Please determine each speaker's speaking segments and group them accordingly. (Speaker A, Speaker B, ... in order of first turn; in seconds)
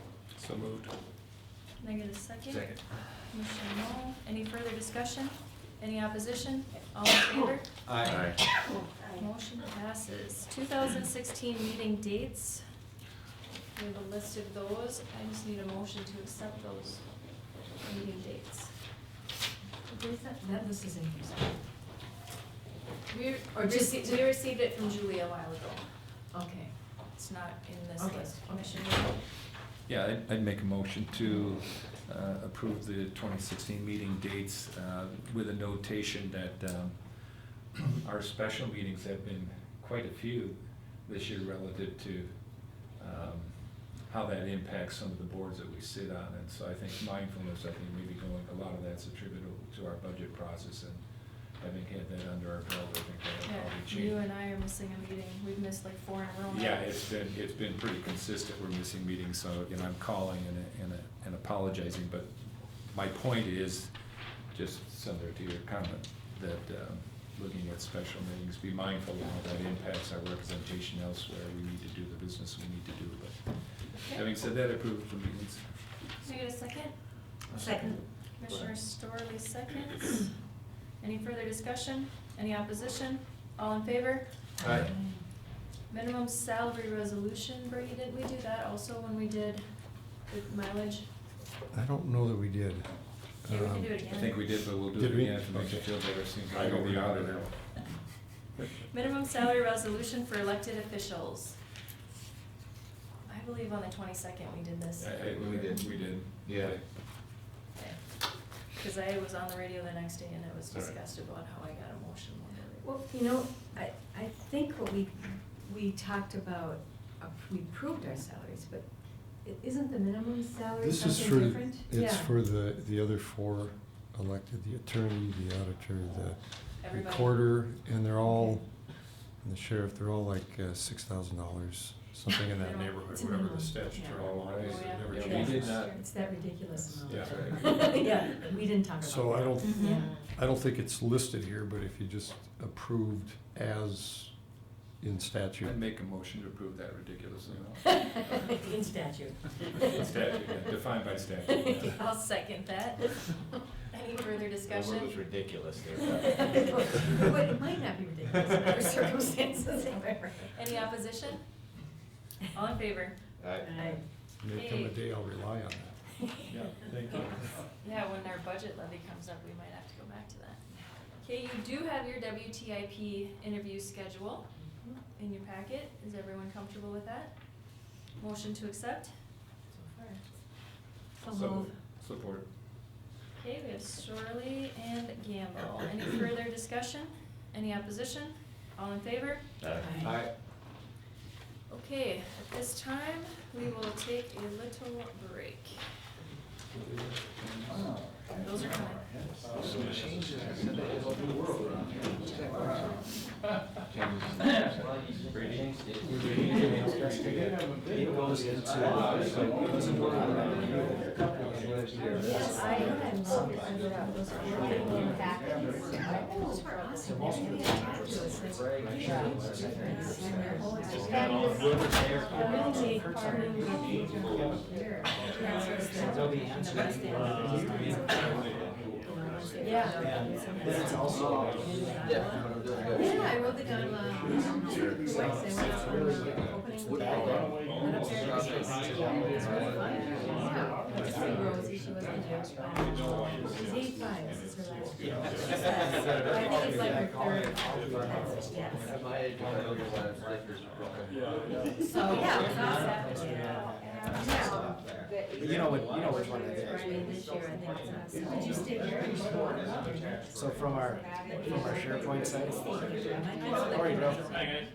Speaker A: 0.3-1.0, 8.0-8.3, 29.9-54.3, 56.5-76.2, 77.5-78.8, 84.6-84.9, 94.1-97.9, 105.0-106.9, 110.7-111.0, 134.1-135.9, 137.1-137.4, 145.6-148.3, 149.9-152.0, 166.5-167.4, 181.3-182.5, 199.7-200.8, 237.7-238.0, 242.8-244.5
Speaker B: 1.8-12.7, 13.7-18.8, 23.1-25.9, 27.1-29.2, 53.5-56.9, 76.2-84.3, 85.9-91.1, 93.5-94.4, 98.8-101.6, 103.2-106.0, 107.8-112.9, 126.8-127.4, 132.6-133.0, 134.6-136.1, 151.8-155.4, 160.5-161.4, 162.5-163.2, 164.5-165.0, 167.8-174.5, 175.1-177.4, 178.2-179.1, 183.4-189.5, 191.7-196.0, 198.3-199.4, 229.7-230.0, 239.8-240.1, 251.8-253.7
Speaker C: 2.5-2.8, 7.9-8.4, 84.6-84.9, 105.2-105.9, 106.5-106.8, 135.2-135.9, 137.1-138.2, 154.7-157.2, 163.4-164.0, 189.6-190.3, 203.9-204.4, 205.3-206.7, 249.3-250.8
Speaker D: 19.9-21.7, 23.5-24.3, 26.3-26.8, 28.0-29.1, 77.5-78.0, 84.8-85.2, 112.8-122.3, 133.1-134.2, 135.2-140.2, 147.8-150.6, 151.5-151.9, 156.2-160.6, 163.6-164.0, 179.7-180.2, 181.2-181.7, 189.8-190.2, 212.2-221.5, 222.3-248.9, 251.9-253.3, 254.1-254.7, 255.9-264.7
Speaker E: 91.7-94.3, 94.8-97.4, 120.8-135.8, 137.0-138.0, 139.0-145.8, 164.4-167.5, 206.5-206.8, 208.3-210.4
Speaker F: 209.7-210.7, 212.2-213.4, 216.0-216.3, 217.1-220.6, 221.4-224.6, 225.2-228.5, 230.0-232.1, 232.7-233.4, 235.1-237.4, 238.0-240.1, 240.9-241.2, 246.1-248.8, 252.1-257.2, 260.3-262.7, 263.6-264.3